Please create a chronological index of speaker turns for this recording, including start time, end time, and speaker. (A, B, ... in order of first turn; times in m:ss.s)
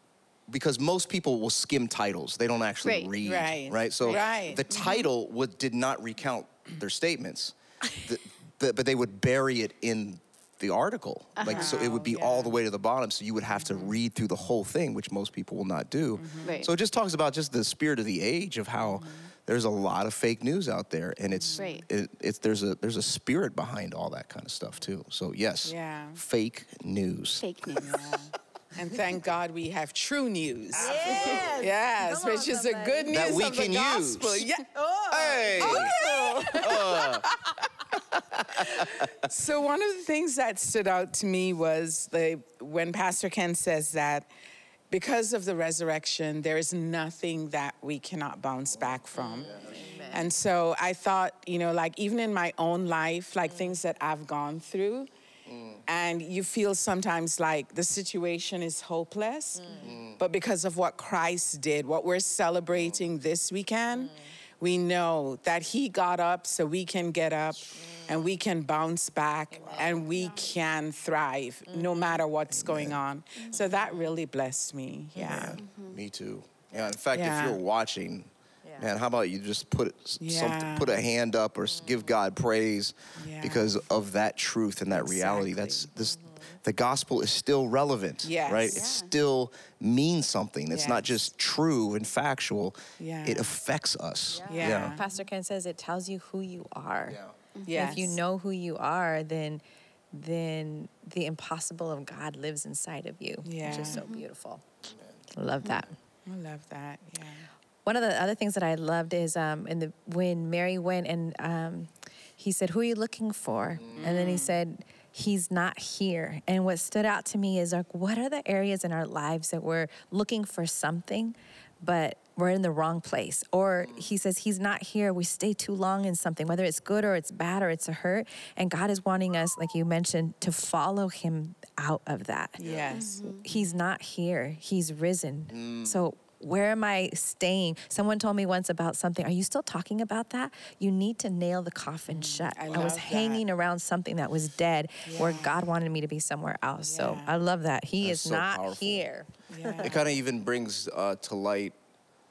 0:00.5-0:27.5 A
0:02.8-0:03.1 B
0:03.2-0:05.0 C
0:04.0-0:04.4 B
0:11.4-0:11.8 B
0:11.4-0:12.6 C
0:13.6-0:13.9 C
0:16.2-0:16.6 C
0:16.4-0:16.7 B
0:18.8-0:19.3 C
0:21.4-0:21.7 C
0:21.6-0:21.8 B
0:25.6-0:26.2 C
0:27.4-0:28.2 B
0:27.8-0:37.4 C
0:30.7-0:33.3 D
0:33.1-0:34.6 A
0:35.1-0:37.2 A
0:35.6-0:36.6 D
0:39.2-0:44.3 C
0:44.9-0:55.1 C
0:49.2-0:50.3 D
0:49.5-0:49.8 A
0:53.5-0:53.8 D
0:55.5-0:55.8 A
0:55.9-1:15.6 C
0:59.6-1:00.0 D
0:59.8-1:00.2 A
1:07.8-1:08.0 D
1:09.5-1:10.5 D
1:11.7-1:12.2 D
1:12.5-1:13.0 A
1:13.4-1:13.7 B
1:13.5-1:14.1 D
1:15.2-1:35.0 A
1:15.6-1:16.0 B
1:17.1-1:17.6 C
1:20.2-1:21.0 C
1:21.7-1:22.2 D
1:23.2-1:23.8 C
1:24.9-1:25.9 C
1:26.0-1:26.4 D
1:28.2-1:29.1 C
1:28.7-1:28.9 B
1:30.7-1:31.2 C
1:33.0-1:33.6 C
1:34.3-1:44.6 D
1:34.4-1:35.0 C
1:37.0-1:37.3 A
1:37.6-1:38.0 B
1:37.6-1:38.2 C
1:43.4-1:44.1 C
1:43.6-1:44.3 B
1:45.3-1:45.9 D
1:46.2-1:47.5 C
1:47.8-2:30.0 D
1:53.8-1:54.1 A
1:53.9-1:54.6 C
2:12.6-2:13.4 C
2:12.6-2:13.0 A
2:12.9-2:13.5 B
2:15.5-2:16.0 A
2:22.1-2:23.4 C
2:25.0-2:25.7 C
2:26.8-2:27.4 C
2:28.0-2:29.1 A
2:29.5-2:30.2 C
2:29.8-2:31.7 A